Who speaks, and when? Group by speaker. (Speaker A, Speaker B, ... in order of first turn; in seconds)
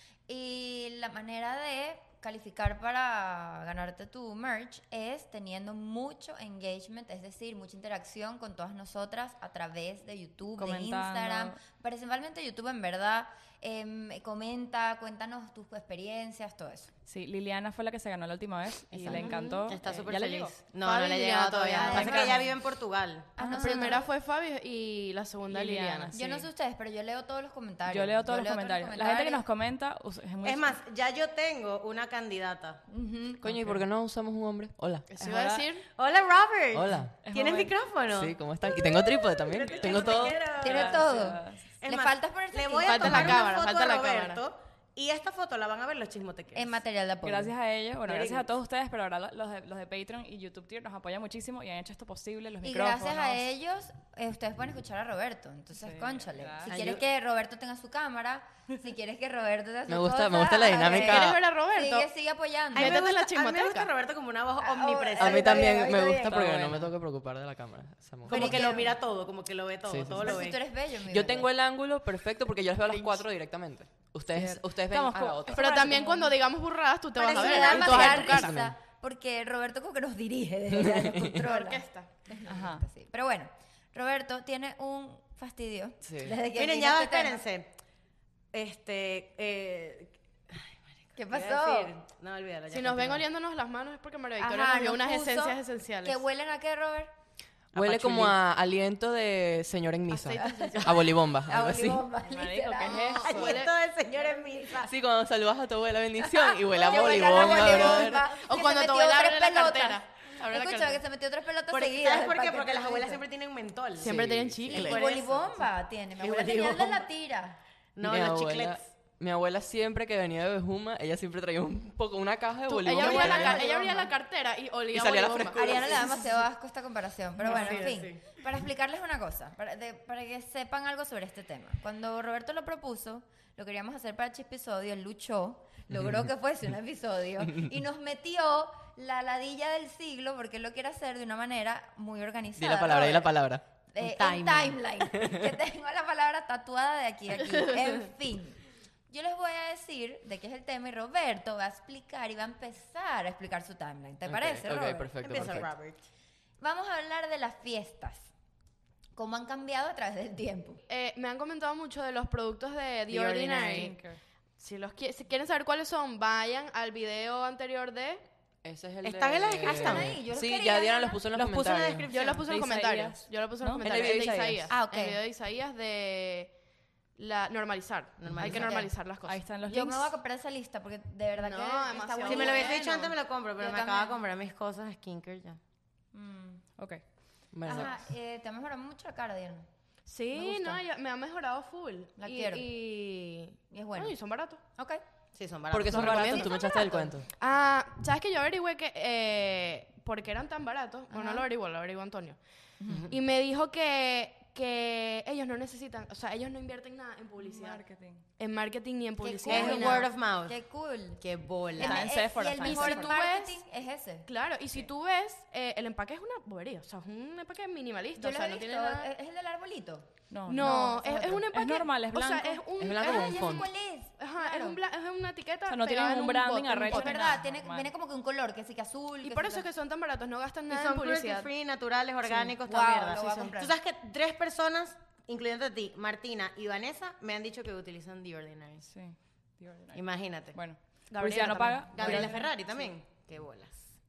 Speaker A: 0.3-16.9, 21.8-22.3, 23.4-24.1, 26.1-29.4, 32.9-33.6, 40.5-43.5, 46.5-47.5, 52.6-63.0, 64.6-66.4, 68.3-69.0, 70.2-71.5, 77.2-87.4, 91.2-91.9, 94.4-97.1, 100.3-103.3, 106.2-113.2, 114.7-117.6, 122.9-124.1, 125.5-143.3, 143.9-155.1, 156.6-158.3, 159.1-160.8, 169.6-171.2, 174.7-175.2, 178.4-178.9, 179.7-182.8, 183.6-184.2, 186.1-186.6, 187.7-189.7, 190.3-190.8, 192.2-192.7, 193.7-194.2, 194.8-195.0, 196.1-197.1, 201.1-201.5, 202.8-203.1, 209.2-211.2, 211.7-214.3, 218.2-221.4, 222.9-224.8, 226.9-229.7, 232.5-233.8
Speaker B: 10.6-11.6, 17.1-20.5, 21.9-22.5, 23.4-23.9, 25.5-26.5, 27.9-30.8, 35.2-35.7, 37.2-37.7, 39.7-41.6, 47.2-53.5, 55.8-56.7, 66.2-66.9, 74.3-76.3, 82.5-82.8, 102.2-103.6, 163.7-164.2, 172.3-174.4, 179.2-180.1, 207.4-208.2, 211.8-213.1, 220.3-222.6, 225.7-227.9, 238.8-242.4
Speaker C: 18.9-23.8, 30.4-32.8, 36.0-38.4, 39.5-46.8, 48.0-48.5, 62.7-65.8, 68.2-70.6, 77.2-78.5, 86.5-87.7, 88.5-93.3, 100.7-101.0, 103.2-104.9, 106.9-108.1, 111.7-115.7, 116.2-117.0, 118.0-118.8, 127.4-128.2, 144.0-144.8, 155.2-156.0, 163.1-163.9, 169.0-170.2, 171.3-172.4, 178.2-178.8, 182.2-185.6, 195.3-196.3, 202.9-203.1, 209.5-210.6, 211.2-212.1, 230.7-238.8, 239.9-240.6, 241.9-243.9
Speaker D: 19.1-19.6, 20.8-22.4, 23.4-26.1, 35.1-35.9, 42.8-44.4, 60.8-62.1, 62.7-63.9, 75.5-78.6, 81.4-82.1, 92.7-96.2, 97.8-98.3, 102.8-103.7, 107.5-111.0, 114.0-115.0, 122.7-126.2, 127.5-127.8, 160.9-163.9, 164.6-168.2, 172.1-176.5, 177.2-179.4, 181.5-183.1, 190.1-194.6, 195.9-202.4, 203.1-207.8, 208.4-210.1, 212.6-213.6, 214.3-219.1, 220.5-227.3, 229.2-231.5, 241.1-242.9
Speaker E: 33.4-35.1, 36.7-37.2, 38.1-40.5, 56.7-57.0, 59.9-61.4, 65.2-68.8, 69.9-70.4, 71.1-76.0, 78.3-78.7, 80.7-81.5, 86.0-86.4, 97.7-102.1, 104.8-108.2, 114.0-114.8, 118.0-123.7, 124.9-126.2, 142.6-143.6, 145.2-145.5, 154.2-155.7, 168.6-172.1, 173.8-174.7, 178.3-178.6, 187.5-187.9, 195.7-197.3, 222.8-223.7